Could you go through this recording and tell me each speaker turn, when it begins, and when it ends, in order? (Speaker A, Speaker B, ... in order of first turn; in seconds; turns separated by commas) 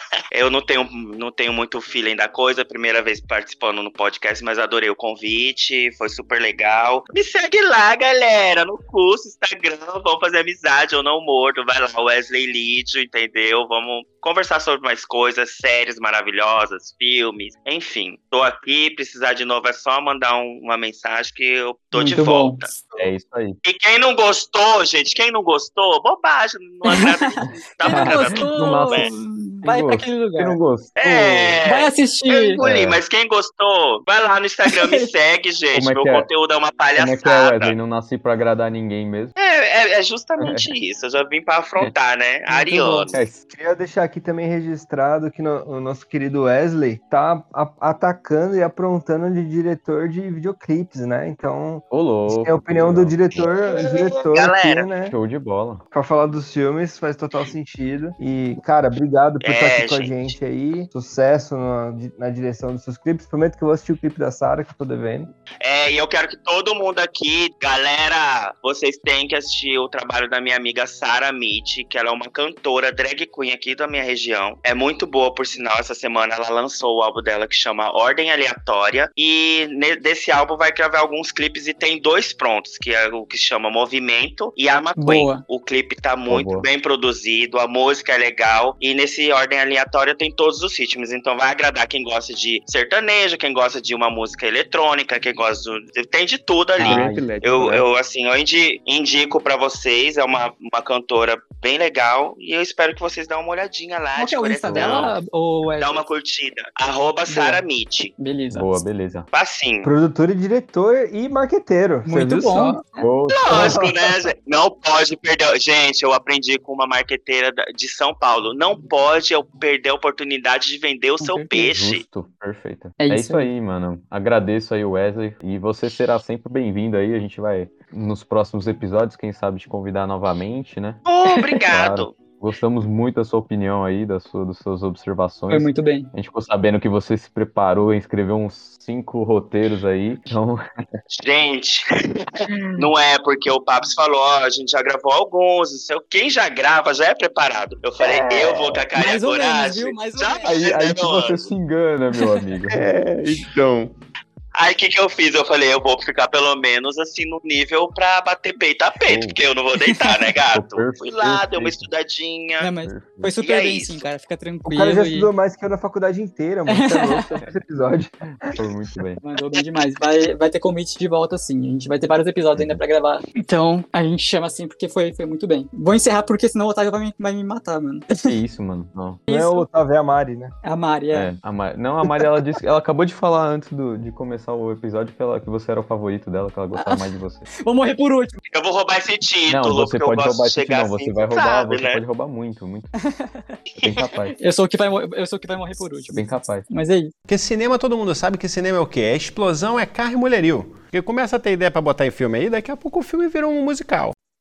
Speaker A: 0.3-22.7, Speaker B: 21.9-23.0, Speaker C: 23.0-23.6, Speaker A: 23.6-29.1, Speaker B: 26.9-30.6, Speaker C: 27.5-31.6, Speaker A: 31.0-37.8, Speaker B: 31.7-32.6, Speaker C: 32.6-33.0, Speaker B: 34.7-35.1, Speaker C: 35.7-36.3, Speaker C: 37.0-39.4, Speaker A: 39.4-43.2, Speaker C: 40.4-40.7, Speaker B: 42.5-43.2, Speaker C: 43.1-43.4, Speaker D: 43.5-55.2, Speaker C: 51.9-53.5, Speaker A: 54.2-54.9, Speaker C: 55.1-55.8, Speaker D: 55.9-65.3, Speaker A: 59.4-60.4, Speaker A: 65.6-105.2, Speaker B: 85.0-85.4, Speaker C: 86.3-86.7, Speaker C: 96.8-97.3, Speaker E: 96.8-97.9, Speaker B: 104.2-106.0, Speaker C: 104.7-105.2, Speaker A: 105.8-108.1, Speaker B: 107.3-107.6, Speaker B: 108.2-108.8, Speaker C: 108.5-109.3, Speaker A: 109.3-109.9, Speaker D: 109.8-112.8, Speaker B: 112.0-113.1, Speaker C: 113.0-113.9, Speaker A: 113.3-122.0, Speaker D: 113.5-113.9, Speaker B: 121.2-121.5, Speaker C: 121.5-131.1, Speaker B: 123.0-123.5, Speaker A: 131.1-132.1, Speaker B: 131.3-131.6, Speaker C: 131.7-140.6, Speaker B: 135.5-136.1, Speaker A: 141.1-151.5, Speaker B: 142.5-142.8, Speaker B: 148.0-150.6, Speaker C: 150.4-152.8, Speaker E: 152.7-153.9, Speaker A: 154.6-162.7, Speaker C: 159.1-159.4, Speaker B: 159.8-160.3, Speaker C: 160.5-161.9, Speaker B: 162.6-165.3, Speaker C: 162.8-163.3, Speaker A: 163.4-164.0, Speaker D: 164.7-168.6, Speaker B: 166.7-167.4, Speaker C: 168.2-169.2, Speaker B: 169.2-178.3, Speaker C: 172.6-172.8, Speaker C: 178.2-179.2, Speaker B: 179.3-179.7, Speaker D: 179.3-180.5, Speaker B: 180.6-181.3, Speaker C: 181.1-187.5, Speaker B: 186.7-187.1, Speaker B: 187.6-188.4, Speaker A: 188.5-192.0, Speaker C: 189.5-192.9, Speaker B: 193.0-193.6, Speaker C: 193.8-194.4, Speaker B: 194.4-197.1, Speaker C: 196.2-196.7, Speaker F: 197.3-204.2